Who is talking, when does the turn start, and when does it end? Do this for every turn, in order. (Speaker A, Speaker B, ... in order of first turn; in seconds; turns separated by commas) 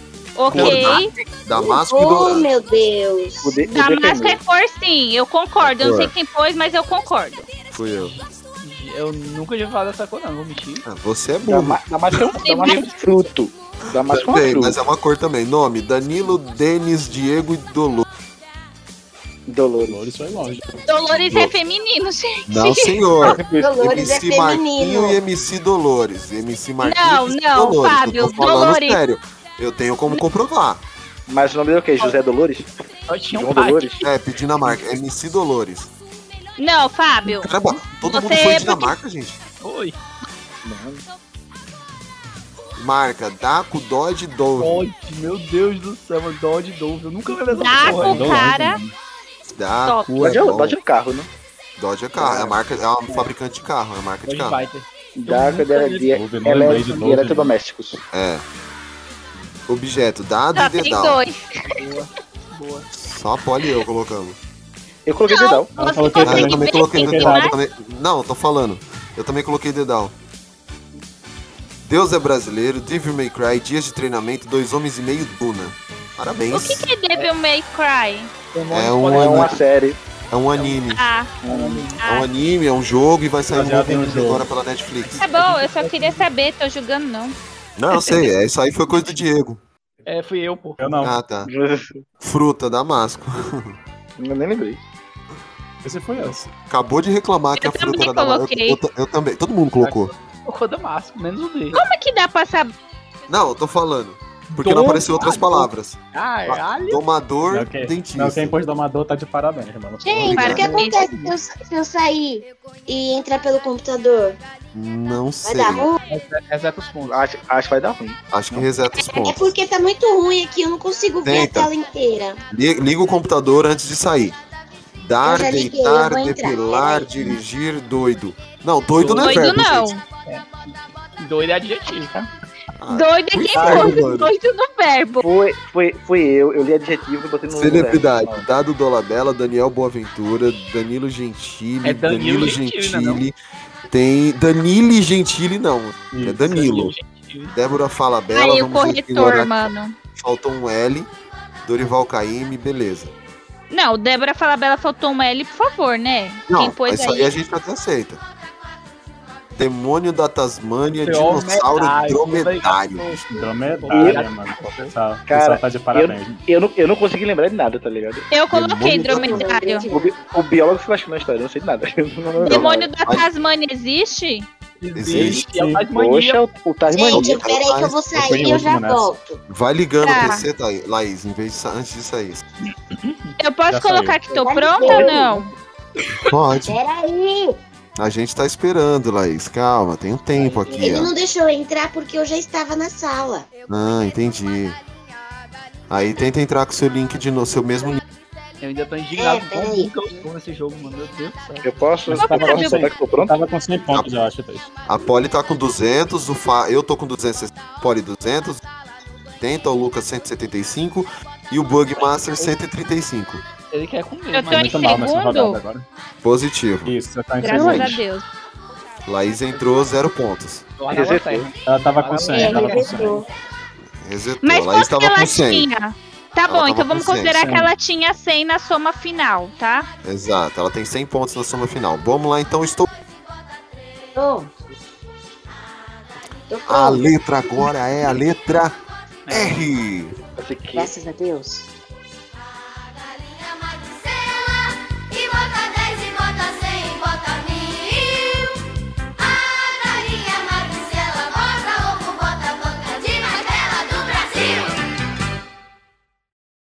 Speaker A: 0.4-1.1, Speaker B: 0.5-2.5, Speaker C: 1.5-3.6, Speaker D: 3.4-4.4, Speaker A: 3.7-7.5, Speaker B: 5.6-6.1, Speaker B: 7.7-8.1, Speaker E: 8.0-10.8, Speaker B: 10.8-12.3, Speaker D: 11.4-14.8, Speaker A: 12.4-12.8, Speaker B: 14.0-18.1, Speaker D: 19.5-20.1, Speaker F: 19.8-20.8, Speaker A: 20.9-23.1, Speaker B: 21.2-21.5, Speaker B: 22.5-30.8, Speaker D: 23.2-23.9, Speaker C: 23.5-25.2, Speaker A: 26.8-29.0, Speaker D: 31.3-32.7, Speaker E: 33.1-34.1, Speaker D: 33.3-34.0, Speaker B: 34.0-35.9, Speaker A: 36.6-38.9, Speaker B: 37.2-39.4, Speaker E: 39.6-40.0, Speaker D: 40.6-41.0, Speaker B: 42.8-44.8, Speaker E: 44.6-48.5, Speaker A: 47.5-48.8, Speaker F: 47.9-48.9, Speaker B: 49.5-50.8, Speaker A: 49.9-50.1, Speaker D: 50.2-51.3, Speaker B: 51.8-54.6, Speaker D: 52.2-52.6, Speaker E: 54.2-56.8, Speaker D: 55.2-58.0, Speaker F: 56.1-57.5, Speaker B: 58.1-58.4, Speaker B: 59.7-61.2, Speaker A: 60.5-61.7, Speaker E: 61.7-62.9, Speaker B: 63.0-64.4, Speaker D: 65.0-65.7, Speaker A: 65.3-67.5, Speaker F: 65.7-67.5, Speaker B: 66.2-70.1, Speaker B: 71.8-76.9, Speaker A: 76.5-78.3, Speaker E: 78.5-79.6, Speaker B: 78.7-79.6, Speaker D: 79.1-80.0, Speaker B: 80.3-81.1, Speaker A: 80.9-81.3, Speaker D: 81.4-81.9, Speaker E: 81.5-82.0, Speaker A: 82.0-82.3, Speaker B: 82.0-85.2, Speaker F: 83.5-84.5, Speaker E: 85.1-86.2, Speaker A: 85.2-87.3, Speaker B: 87.8-89.6, Speaker E: 90.0-90.8, Speaker F: 90.8-91.2, Speaker B: 91.0-91.5, Speaker D: 91.5-92.0, Speaker B: 92.2-93.8, Speaker D: 94.2-94.8, Speaker F: 95.8-96.5, Speaker B: 96.2-100.1, Speaker A: 97.6-98.8, Speaker E: 99.8-101.8, Speaker A: 101.7-102.7, Speaker B: 103.3-108.6, Speaker E: 104.5-107.0, Speaker F: 107.5-110.3, Speaker C: 110.0-114.4, Speaker B: 110.0-110.8, Speaker A: 110.3-111.2, Speaker B: 114.7-115.9, Speaker C: 115.4-116.0, Speaker E: 116.1-117.2, Speaker D: 117.0-118.7, Speaker B: 118.3-119.5, Speaker C: 119.0-122.4, Speaker B: 121.2-121.7, Speaker B: 122.5-124.3, Speaker B: 125.0-129.9, Speaker C: 125.2-127.1, Speaker E: 129.0-129.5, Speaker A: 129.2-130.0, Speaker E: 130.3-132.3, Speaker B: 132.8-134.3, Speaker A: 132.9-135.2, Speaker D: 133.6-134.0, Speaker D: 135.2-138.4, Speaker B: 137.5-143.3, Speaker E: 141.8-143.2, Speaker B: 143.9-146.9, Speaker F: 146.1-146.4, Speaker E: 146.4-147.6, Speaker B: 147.5-151.1, Speaker A: 148.3-149.9, Speaker B: 151.6-153.1, Speaker A: 153.7-157.3, Speaker B: 156.5-158.2, Speaker B: 159.6-163.2, Speaker E: 161.0-164.9, Speaker F: 163.2-166.4, Speaker D: 163.9-164.2, Speaker D: 165.3-168.3, Speaker A: 168.3-169.9, Speaker B: 168.5-169.5, Speaker C: 168.9-170.1, Speaker D: 169.9-172.9, Speaker A: 172.4-174.5, Speaker B: 172.4-173.3, Speaker E: 174.8-176.4, Speaker B: 174.9-175.4, Speaker D: 175.1-177.5, Speaker F: 175.4-175.8, Speaker C: 176.9-179.4, Speaker B: 177.1-178.2, Speaker F: 178.1-179.1, Speaker B: 179.5-182.4, Speaker A: 180.0-180.4, Speaker A: 183.4-185.5, Speaker F: 183.7-184.2, Speaker C: 184.3-185.4, Speaker D: 184.8-185.2, Speaker B: 186.2-186.7, Speaker C: 186.7-187.6, Speaker B: 188.0-191.1, Speaker C: 190.7-193.5, Speaker B: 193.7-194.8, Speaker B: 195.9-198.0, Speaker E: 198.6-201.7, Speaker C: 199.1-199.9, Speaker D: 201.6-203.3, Speaker F: 202.0-204.7, Speaker A: 202.1-202.9, Speaker B: 204.8-208.6, Speaker B: 209.4-213.4, Speaker E: 213.7-214.9, Speaker A: 214.3-215.6, Speaker F: 214.5-215.8, Speaker B: 216.2-216.9, Speaker F: 216.8-218.0, Speaker A: 217.4-218.2, Speaker B: 219.0-220.7, Speaker E: 220.8-223.2, Speaker D: 220.9-221.5, Speaker F: 221.6-223.2, Speaker C: 222.2-223.3, Speaker B: 224.0-225.7, Speaker A: 224.4-229.9, Speaker B: 226.5-227.6, Speaker F: 227.4-227.7, Speaker B: 230.0-232.9, Speaker C: 234.1-234.5, Speaker C: 236.5-237.1, Speaker B: 236.7-238.8, Speaker E: 239.3-239.6, Speaker B: 239.3-240.2, Speaker D: 240.4-240.9, Speaker C: 240.7-241.7, Speaker G: 243.4-248.5, Speaker G: 249.2-254.7